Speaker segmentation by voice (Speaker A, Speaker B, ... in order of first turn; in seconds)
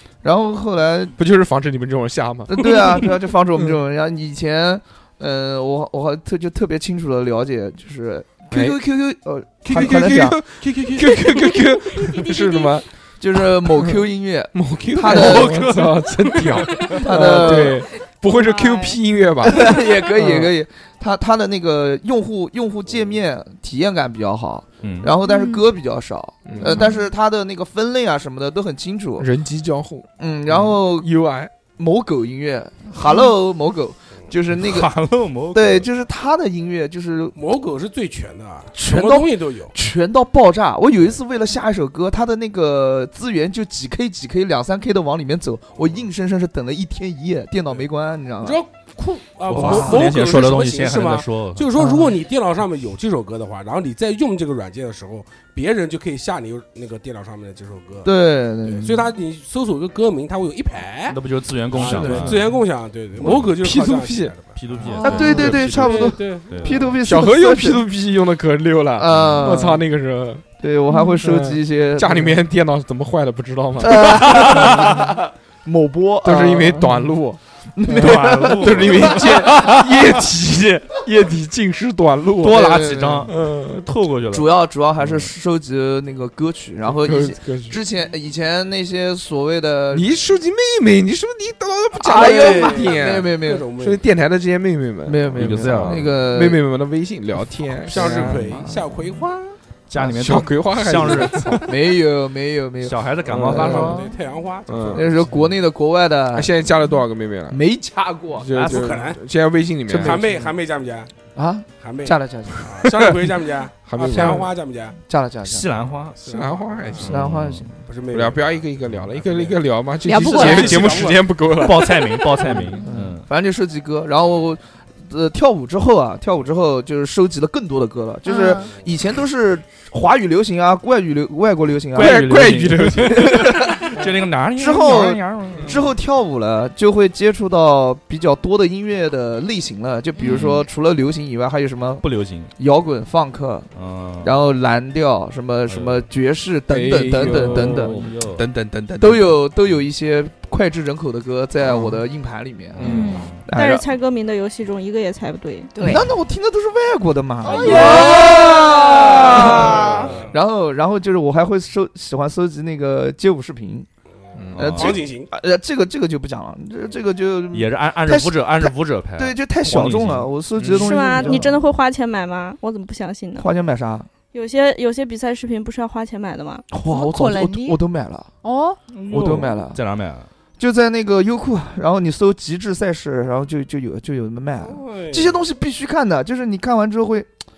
Speaker A: 0.2-1.1, 2.5-11.6, 13.2-15.7, 16.7-17.9, 19.4-29.3, 30.2-31.1, 31.8-34.9, 35.5-37.4, 38.7-48.6, 49.5-50.1, 51.8-52.1, 58.0-59.1, 61.8-62.4, 65.0-67.8, 69.0-69.8, 70.6-72.4, 73.8-77.2, 77.7-79.5, 82.5-83.3, 84.3-90.0, 92.0-93.7, 95.1-96.6, 97.9-98.8, 100.0-100.4, 101.6-104.1, 104.9-106.5, 107.5-109.0, 111.3-112.6, 114.1-114.4, 115.0-115.7, 117.0-117.8, 122.5-133.9, 134.6-142.1, 142.6-148.0, 149.0-153.9, 155.8-163.9, 164.5-171.6, 173.4-174.1, 176.7-178.3, 179.1-179.8, 180.6-187.3
Speaker B: 1.2-3.1, 8.5-8.8, 9.7-12.9, 13.6-20.5, 26.4-26.9, 29.2-31.5, 63.2-64.3, 65.3-65.6, 67.0-70.5, 71.2-75.0, 76.2-82.8, 83.3-83.8, 86.9-87.8, 89.9-98.4, 100.0-101.7, 103.3-104.0, 104.7-105.2, 106.3-107.6, 108.4-110.3, 113.8-114.5, 116.3-117.1, 118.1-122.6, 131.9-134.0, 135.5-135.8, 146.7-149.4, 151.6-152.0, 152.8-153.3, 164.3-164.8, 170.6-170.8
Speaker C: 10.7-10.9, 15.1-15.9, 24.8-25.1, 34.5-35.9, 49.5-51.7, 61.1-62.5, 64.5-66.9, 69.1-69.5, 77.9-79.7, 82.4-85.3, 95.3-96.1, 99.9-101.7, 102.8-104.0, 115.4-116.3, 117.0-117.7, 121.4-123.3, 131.9-135.8, 140.2-140.6, 142.0-142.5, 143.7-144.3, 145.7-146.1, 147.1-148.4, 152.8-153.5, 164.5-165.0, 167.5-171.3, 178.9-180.3
Speaker D: 18.3-18.9, 25.2-25.6, 26.6-27.1, 65.0-65.5, 70.9-71.2, 120.0-121.0, 128.2-128.7, 140.2-140.5, 152.8-153.3, 157.5-158.8, 176.8-177.8, 178.4-178.8
Speaker E: 37.4-39.7, 48.4-58.1, 58.6-66.8, 92.0-94.0, 97.8-99.6, 103.4-105.2, 108.5-109.2, 109.9-111.1, 111.8-115.0, 116.2-117.2, 117.8-121.5, 157.5-158.4, 159.3-160.4, 164.3-165.3, 184.6-185.4
Speaker F: 153.5-155.7, 157.7-158.4, 170.7-173.5, 174.3-176.6